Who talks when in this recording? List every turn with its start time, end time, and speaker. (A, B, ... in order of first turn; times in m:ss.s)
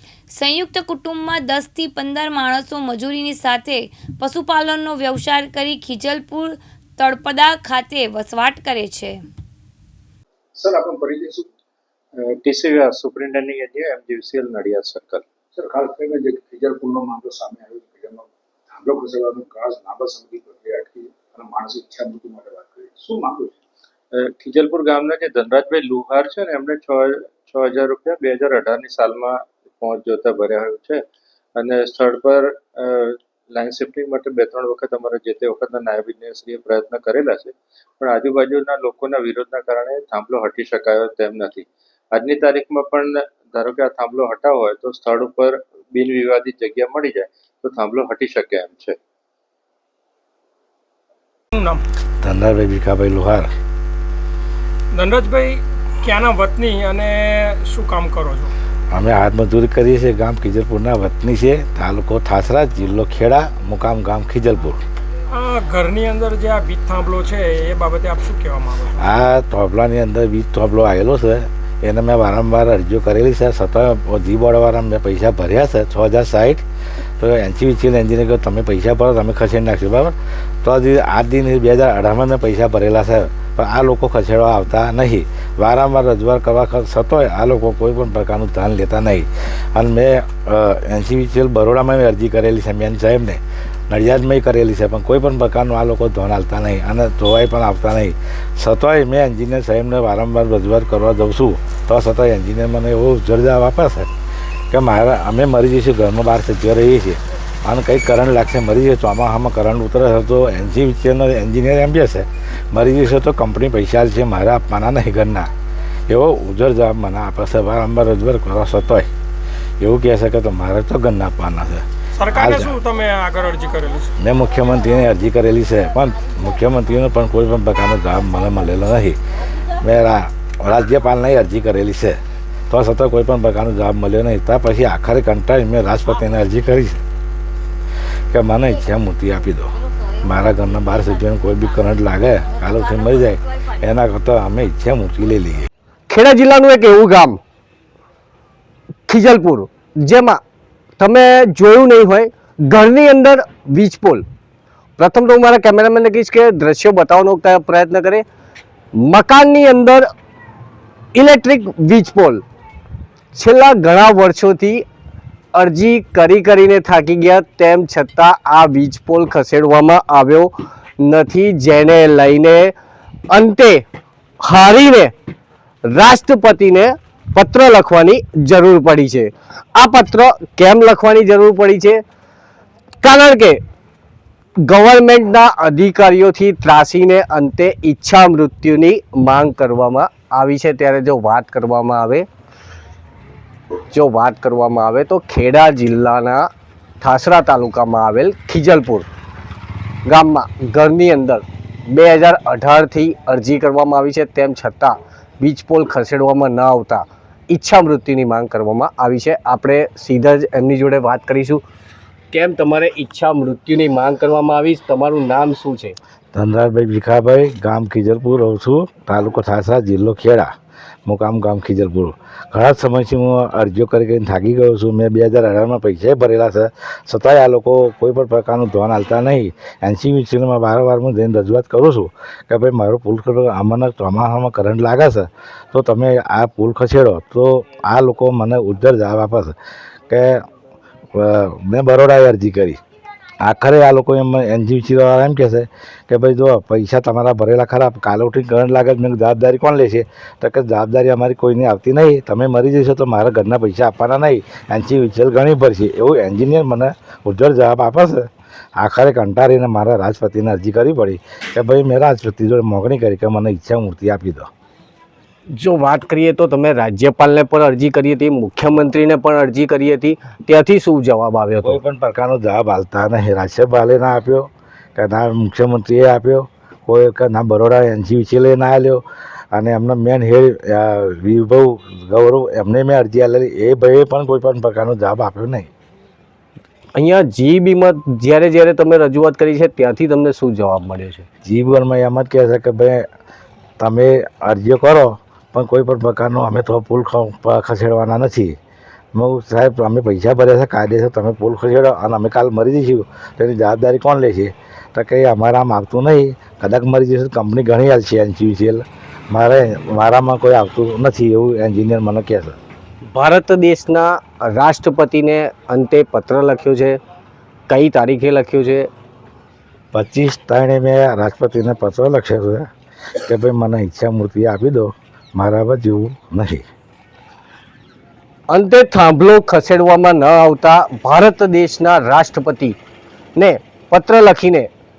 0:00.3-0:09.2 A
0:10.6-0:11.4 B
0:12.4-0:15.2 C
0:15.6-0:23.5 B
0:24.2-0:31.0 C
0:31.6-0:49.0 C
0:51.5-0:51.8 D
0:52.2-0:53.5 E
0:54.9-0:58.5 D
0:58.9-1:04.8 E
1:05.3-1:09.1 D
1:09.0-1:16.6 E
1:17.2-1:44.1 E
1:44.7-1:55.5 E
1:56.1-1:59.1 E
1:59.8-2:02.8 E
2:02.2-2:04.1 D
2:04.2-2:09.2 E
2:04.4-2:05.2 C
2:06.0-2:07.1 C
2:08.1-2:08.8 C
2:09.8-2:12.2 E
2:12.7-2:17.0 E
2:18.3-2:25.7 E
2:19.7-2:23.9 C
2:26.1-2:27.4 F
2:29.1-2:30.4 F
2:31.0-2:34.2 F
2:35.0-2:38.2 F
2:39.0-2:40.0 F
2:41.1-2:42.4 F
2:43.3-2:44.8 F
2:45.5-2:52.7 F
2:53.3-2:53.8 F
2:54.4-2:55.1 F
2:55.9-3:02.0 F
3:03.0-3:03.6 F
3:04.6-3:12.2 F
3:13.9-3:16.5 F
3:17.0-3:19.0 F
3:20.0-3:31.6 F
3:32.3-3:36.0 F
3:36.3-3:40.5 E
3:41.0-3:59.5 E
4:00.1-4:00.4 E
4:01.1-4:02.8 E
4:03.4-4:24.5 E
4:25.6-4:31.8 F
4:31.6-4:45.7 E
4:46.9-4:51.2 F
4:51.4-4:53.0 E
4:53.8-4:58.5 E
4:59.1-5:12.6 E
5:13.1-5:17.0 F
5:17.7-5:18.9 F
5:19.9-5:22.7 E
5:23.2-5:26.6 E
5:28.5-5:32.8 F
5:33.4-5:34.7 F